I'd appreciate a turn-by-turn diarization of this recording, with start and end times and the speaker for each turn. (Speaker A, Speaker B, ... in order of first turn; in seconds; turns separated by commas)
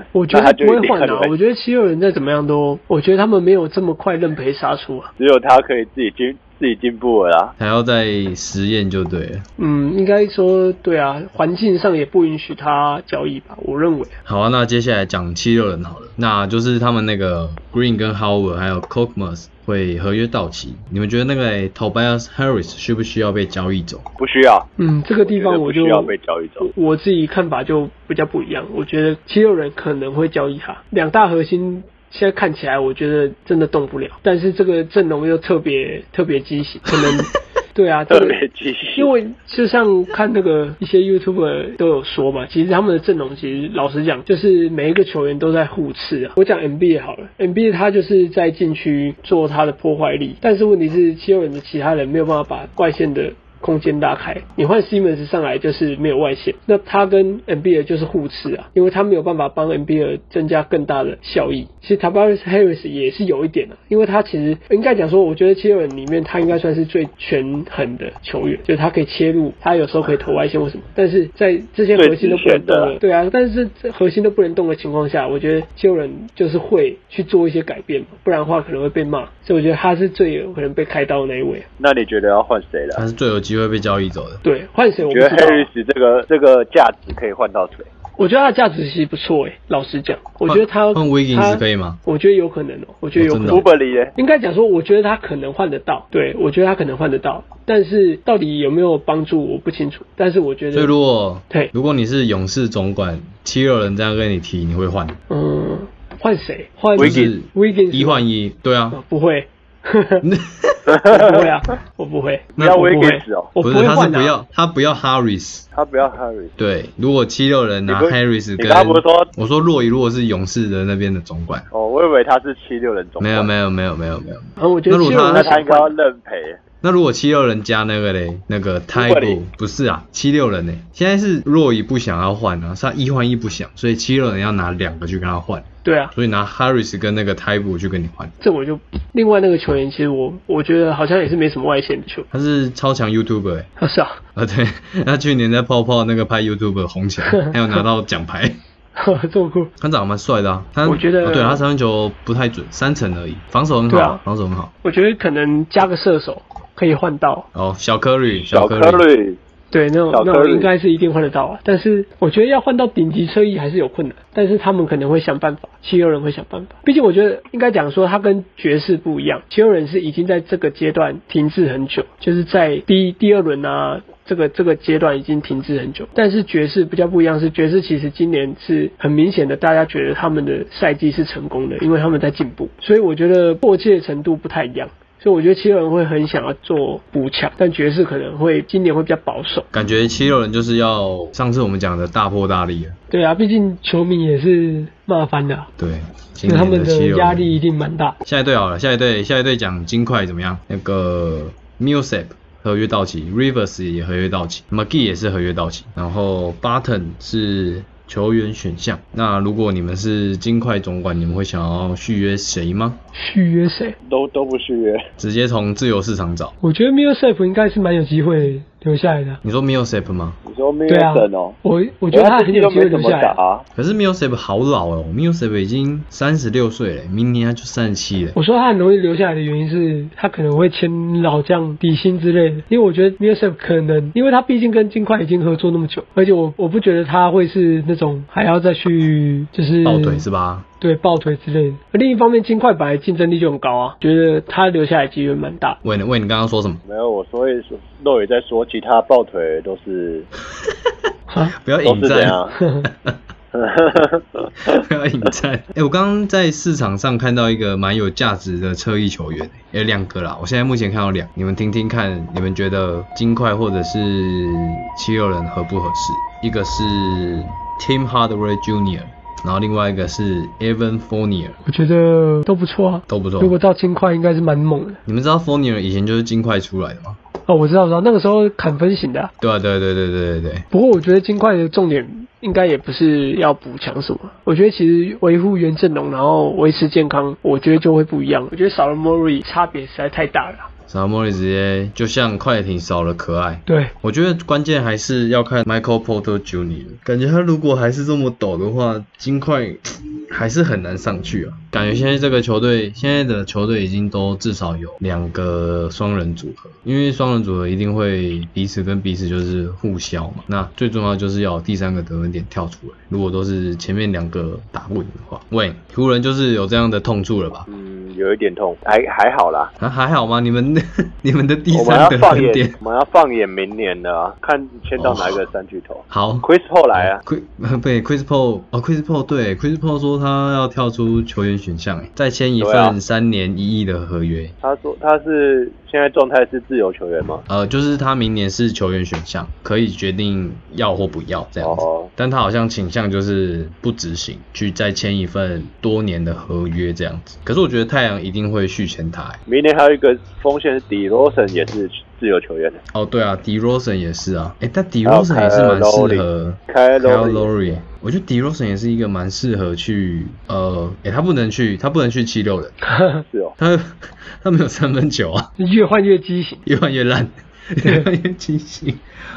Speaker A: 0.1-5.1, Speaker B: 0.3-1.3, Speaker B: 5.2-7.5, Speaker C: 7.6-9.4, Speaker A: 9.6-14.2, Speaker C: 14.3-24.1, Speaker B: 24.2-24.7, Speaker A: 24.8-38.4, Speaker B: 25.2-26.7, Speaker B: 38.1-39.1, Speaker A: 39.0-81.7, Speaker B: 72.0-73.0, Speaker B: 81.8-83.0, Speaker C: 83.0-84.4, Speaker A: 84.4-85.7, Speaker B: 85.1-87.9, Speaker A: 88.2-100.9, Speaker C: 90.5-92.0, Speaker C: 93.2-93.6, Speaker B: 93.5-94.1, Speaker C: 100.7-105.2, Speaker A: 105.3-108.2, Speaker B: 107.0-107.3, Speaker C: 107.0-109.0, Speaker A: 108.9-110.2, Speaker C: 110.2-110.9, Speaker B: 110.9-111.5, Speaker A: 111.1-114.4, Speaker B: 112.6-113.5, Speaker C: 113.6-115.7, Speaker B: 115.7-116.5, Speaker C: 116.6-121.7, Speaker B: 117.9-119.3, Speaker B: 121.7-123.5, Speaker C: 123.2-125.5, Speaker A: 124.6-125.9, Speaker B: 125.3-126.6, Speaker C: 126.8-138.3, Speaker B: 128.9-129.4, Speaker A: 135.8-136.1, Speaker A: 138.4-142.3, Speaker C: 142.3-143.7, Speaker A: 143.8-144.2, Speaker C: 144.3-148.6, Speaker A: 147.3-147.8, Speaker A: 149.0-149.7, Speaker C: 149.8-154.7, Speaker A: 150.8-151.6, Speaker A: 153.9-154.2, Speaker A: 154.8-157.5, Speaker C: 157.5-159.1, Speaker B: 158.5-159.4, Speaker A: 159.7-189.7, Speaker B: 160.1-160.7, Speaker C: 189.7-193.0, Speaker A: 193.1-195.7, Speaker C: 195.8-197.6, Speaker A: 196.5-198.2, Speaker C: 198.2-213.0, Speaker A: 213.1-214.0, Speaker B: 214.1-215.0, Speaker C: 215.2-216.5, Speaker A: 216.6-219.4, Speaker C: 219.4-220.4, Speaker B: 220.4-221.6, Speaker A: 220.9-223.4, Speaker B: 222.1-223.6, Speaker C: 223.8-228.4, Speaker A: 228.3-240.2, Speaker C: 239.8-240.7, Speaker A: 240.8-245.8, Speaker C: 245.8-246.8, Speaker B: 246.8-250.3, Speaker C: 250.7-250.9, Speaker A: 251.3-251.6, Speaker C: 251.6-253.2, Speaker B: 251.8-252.6, Speaker A: 252.6-252.9, Speaker B: 253.5-254.8, Speaker C: 254.7-271.6, Speaker A: 271.6-275.0, Speaker C: 273.1-273.6, Speaker C: 275.1-277.2, Speaker A: 277.5-279.3, Speaker C: 279.4-280.6, Speaker A: 280.7-290.7, Speaker C: 290.9-317.7, Speaker A: 293.7-293.9, Speaker B: 317.7-319.7, Speaker C: 319.8-322.8, Speaker B: 321.7-327.2, Speaker C: 325.0-325.4, Speaker C: 326.1-334.5, Speaker B: 332.6-333.0, Speaker B: 334.6-337.4, Speaker C: 337.5-349.4, Speaker B: 341.6-342.1, Speaker B: 349.5-352.8, Speaker C: 352.9-362.7, Speaker B: 355.1-357.7, Speaker A: 362.8-363.2, Speaker B: 363.3-363.6, Speaker C: 363.6-365.5, Speaker A: 365.6-366.6, Speaker C: 366.7-369.0